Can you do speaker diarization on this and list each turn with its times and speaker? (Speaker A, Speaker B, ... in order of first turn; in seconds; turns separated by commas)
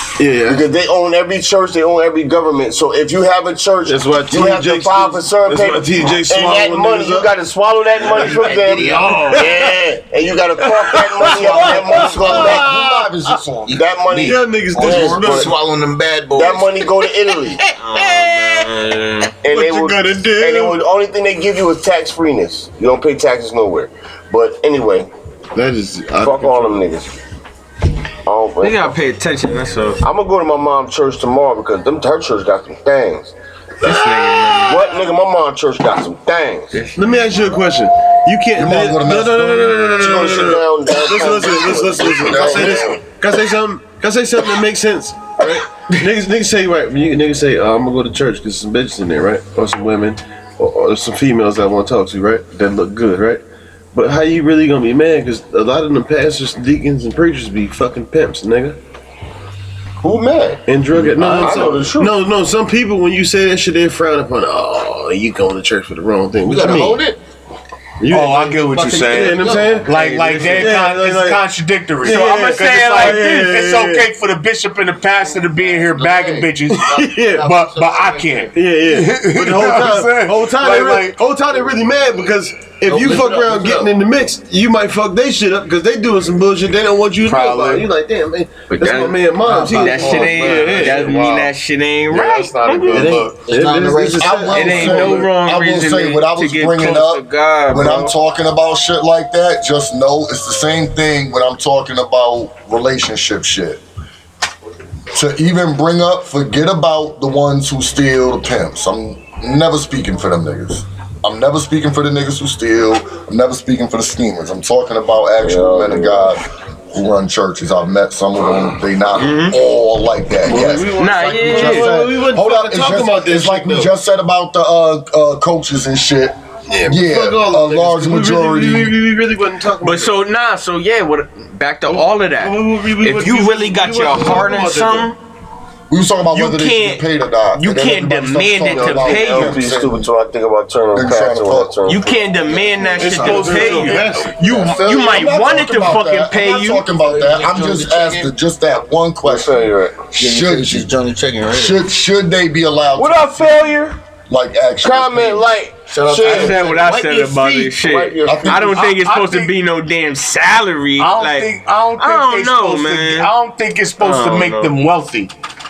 Speaker A: 0.2-0.7, Speaker B: 0.5-12.8, Speaker A: 3.9-7.3, Speaker A: 8.0-9.8, Speaker C: 8.0-9.6, Speaker A: 10.6-13.4, Speaker C: 11.3-12.6, Speaker D: 11.9-13.8, Speaker C: 13.7-16.9, Speaker B: 13.7-15.6, Speaker A: 14.2-15.5, Speaker B: 16.3-17.6, Speaker E: 17.8-19.3, Speaker B: 19.4-25.1, Speaker A: 19.5-20.8, Speaker A: 25.5-26.9, Speaker B: 26.2-27.1, Speaker B: 28.3-28.9, Speaker E: 28.6-30.0, Speaker B: 30.0-33.3, Speaker E: 33.8-35.0, Speaker A: 33.8-35.0, Speaker B: 34.7-36.7, Speaker E: 36.7-37.0, Speaker A: 37.0-53.4, Speaker D: 38.5-40.6, Speaker B: 40.0-43.0, Speaker D: 42.1-43.0, Speaker A: 53.9-58.8, Speaker B: 60.0-62.2, Speaker A: 60.7-67.0, Speaker C: 61.4-61.9, Speaker C: 66.4-67.2, Speaker A: 68.0-71.4, Speaker F: 68.0-81.2, Speaker E: 69.2-70.8, Speaker A: 72.0-74.1, Speaker E: 72.0-73.4, Speaker C: 75.6-78.5, Speaker A: 76.7-77.5, Speaker A: 78.5-91.1, Speaker C: 82.9-83.9, Speaker F: 87.2-87.9, Speaker E: 88.7-93.2, Speaker C: 89.5-90.8, Speaker F: 89.5-91.5, Speaker F: 92.1-93.5, Speaker A: 92.9-95.3, Speaker C: 93.1-94.6, Speaker D: 94.2-103.8, Speaker E: 94.5-98.1, Speaker D: 105.1-129.0, Speaker B: 115.4-116.3, Speaker E: 119.2-119.6, Speaker A: 120.4-123.9, Speaker E: 121.0-121.9, Speaker A: 126.7-130.2, Speaker E: 129.8-135.2, Speaker A: 131.9-135.1, Speaker D: 135.9-140.1, Speaker E: 136.3-139.6, Speaker B: 138.7-143.2, Speaker D: 140.9-141.8, Speaker E: 141.9-146.9, Speaker A: 143.0-144.3, Speaker F: 143.2-144.1, Speaker B: 143.8-144.8, Speaker D: 144.4-149.6, Speaker C: 147.0-148.3, Speaker B: 149.2-150.1, Speaker D: 150.1-150.9, Speaker C: 150.2-151.8, Speaker D: 151.5-153.7, Speaker B: 153.0-154.0, Speaker D: 154.3-155.6, Speaker B: 154.8-156.7, Speaker C: 155.9-157.8, Speaker E: 156.2-163.3, Speaker B: 157.8-158.8, Speaker D: 158.2-158.7, Speaker F: 158.6-159.5, Speaker F: 161.0-165.3, Speaker E: 164.0-164.8